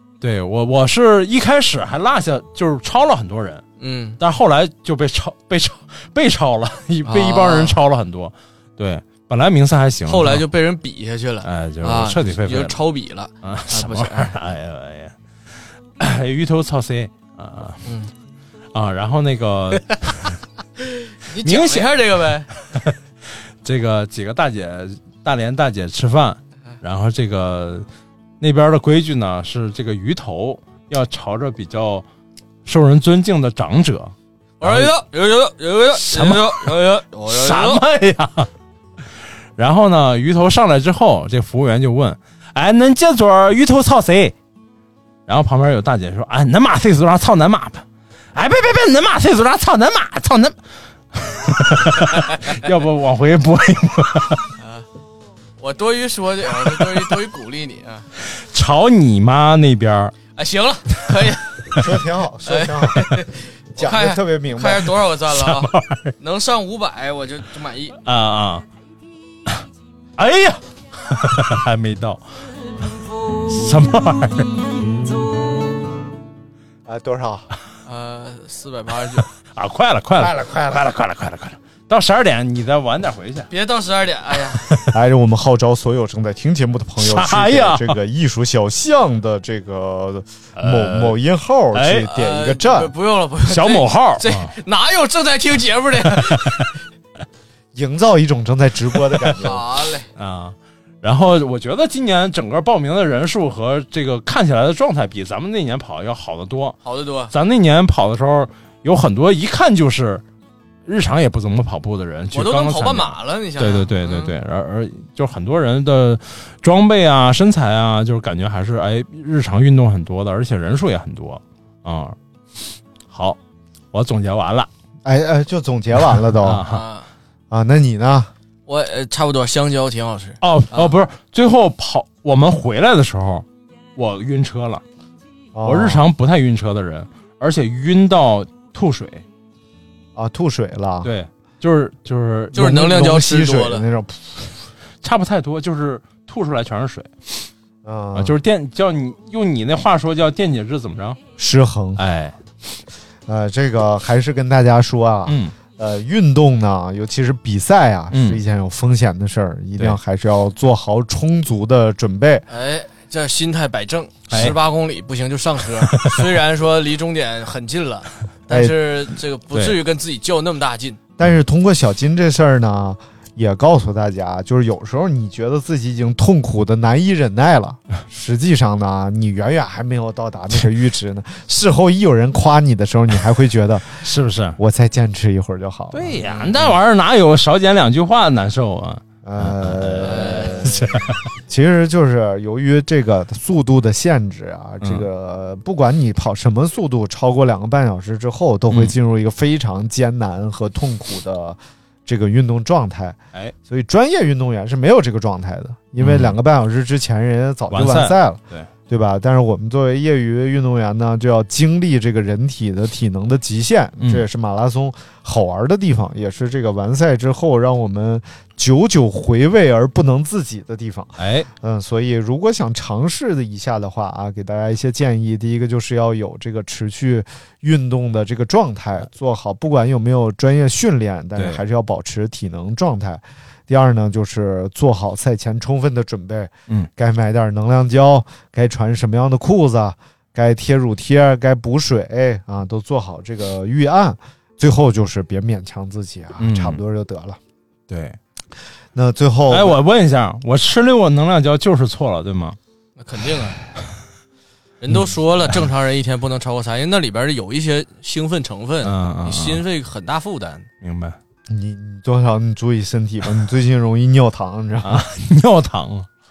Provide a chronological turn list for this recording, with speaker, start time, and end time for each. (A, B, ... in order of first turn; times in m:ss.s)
0:00.2-0:03.6 A
0:03.8-0:04.2 B
0:04.2-0:10.4 A
0:07.0-0:07.7 B
0:10.1-0:14.3 B
0:11.4-0:12.8 A
0:13.4-0:15.1 A
0:16.0-0:17.8 A
0:17.8-0:18.1 B
0:18.7-0:20.3 A
0:21.3-0:22.5 B
0:21.4-0:22.1 A
0:23.6-0:27.8 A
0:28.4-0:32.0 A
0:32.6-0:34.9 A
0:34.6-0:37.8 B
0:36.0-0:36.7 A
0:37.3-0:38.5 A
0:39.6-0:44.3 A
0:45.3-0:47.8 A
0:48.3-0:50.5 A
0:51.1-0:54.5 A
0:54.6-0:54.8 B
0:55.6-0:58.0 B
0:58.3-1:00.1 A
1:00.4-1:01.5 B
1:01.8-1:03.2 C
1:02.5-1:08.0 B
1:03.8-1:04.9 C
1:05.3-1:06.1 A
1:08.0-1:08.6 A
1:10.2-1:12.2 A
1:13.4-1:14.6 A
1:16.8-1:17.5 C
1:17.8-1:19.3 B
1:19.5-1:23.5 A
1:20.2-1:20.8 C
1:23.5-1:24.6 B
1:24.9-1:32.9 C
1:27.0-1:28.0 A
1:30.6-1:31.2 A
1:31.7-1:32.1 A
1:32.1-1:36.6 B
1:33.4-1:34.5 A
1:37.7-1:39.6 C
1:39.4-1:40.1 B
1:40.2-1:46.8 A
1:46.8-1:47.3 B
1:47.3-1:50.2 A
1:50.8-2:03.4 A
1:52.3-1:54.3 B
2:03.9-2:04.7 A
2:05.0-2:06.6 C
2:06.4-2:06.8 A
2:06.7-2:07.1 B
2:07.5-2:08.3 C
2:08.7-2:10.9 B
2:10.4-2:13.4 A
2:14.0-2:14.8 A
2:15.5-2:16.0 C
2:15.6-2:19.2 A
2:20.1-2:21.1 C
2:21.0-2:22.8 A
2:22.5-2:23.8 B
2:22.5-2:24.5 C
2:25.0-2:27.5 A
2:27.8-2:28.4 C
2:28.2-2:31.2 A
2:31.4-2:32.0 C
2:32.0-2:32.4 A
2:33.3-2:42.5 C
2:35.3-2:35.5 A
2:38.1-2:38.4 A
2:42.5-2:51.0 B
2:44.3-2:44.6 A
2:48.5-2:48.7 C
2:49.5-2:49.8 A
2:51.2-3:04.0 C
3:04.0-3:04.6 A
3:04.6-3:06.2 C
3:05.9-3:11.1 A
3:06.2-3:06.7 B
3:09.2-4:07.4 C
3:10.0-3:10.6 B
3:18.7-3:18.9 A
3:26.0-3:26.4 A
3:27.7-3:28.7 A
3:41.2-3:41.5 A
4:06.4-4:06.8 A
4:07.9-4:08.2 A
4:08.9-4:09.8 C
4:09.5-4:12.6 A
4:13.0-4:13.6 B
4:14.8-4:20.7 B
4:18.8-4:19.6 A
4:20.8-4:21.2 A
4:21.5-4:25.0 C
4:24.8-4:26.1 A